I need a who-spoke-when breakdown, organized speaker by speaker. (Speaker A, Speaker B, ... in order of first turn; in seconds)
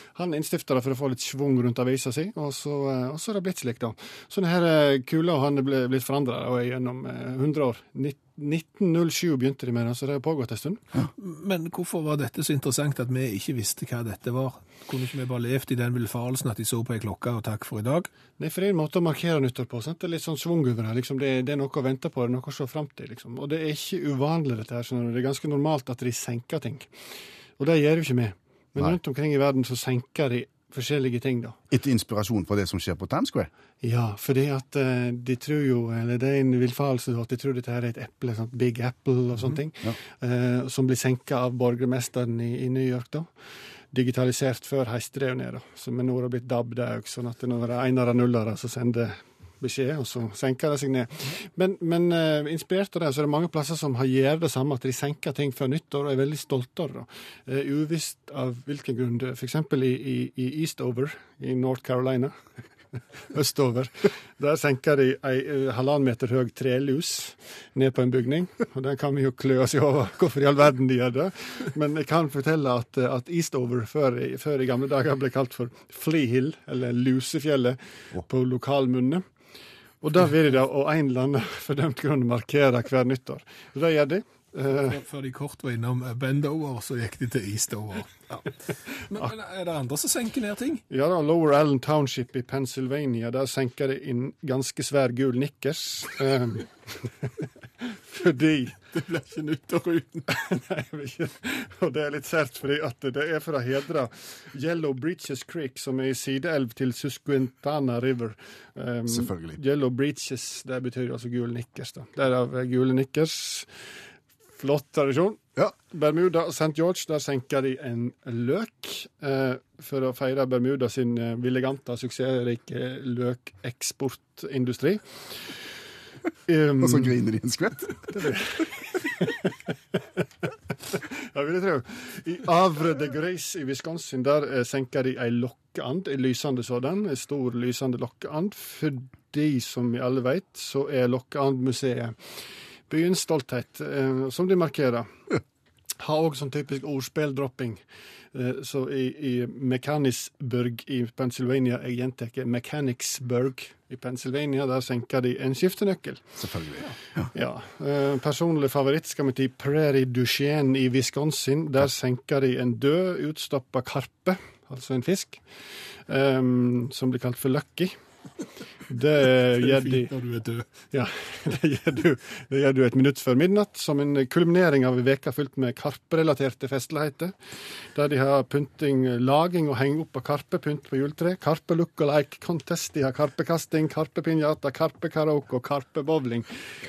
Speaker A: 0.1-10.8, 18.4-26.9, 27.6-31.6, 33.8-43.3, 43.9-62.3, 63.3-79.2, 80.0-85.0, 90.9-98.8, 100.3-113.7, 114.6-125.0, 126.5-127.1, 128.1-129.5, 130.9-142.1, 142.9-145.1, 146.0-147.8, 148.3-156.2, 157.3-165.4, 166.1-167.9, 168.9-170.1, 170.9-177.3, 177.9-186.5
Speaker B: 11.2-18.1, 84.9-90.8, 98.9-100.3, 169.2-170.7
Speaker C: 31.7-33.5, 109.1-109.6, 126.8-128.3, 156.4-157.3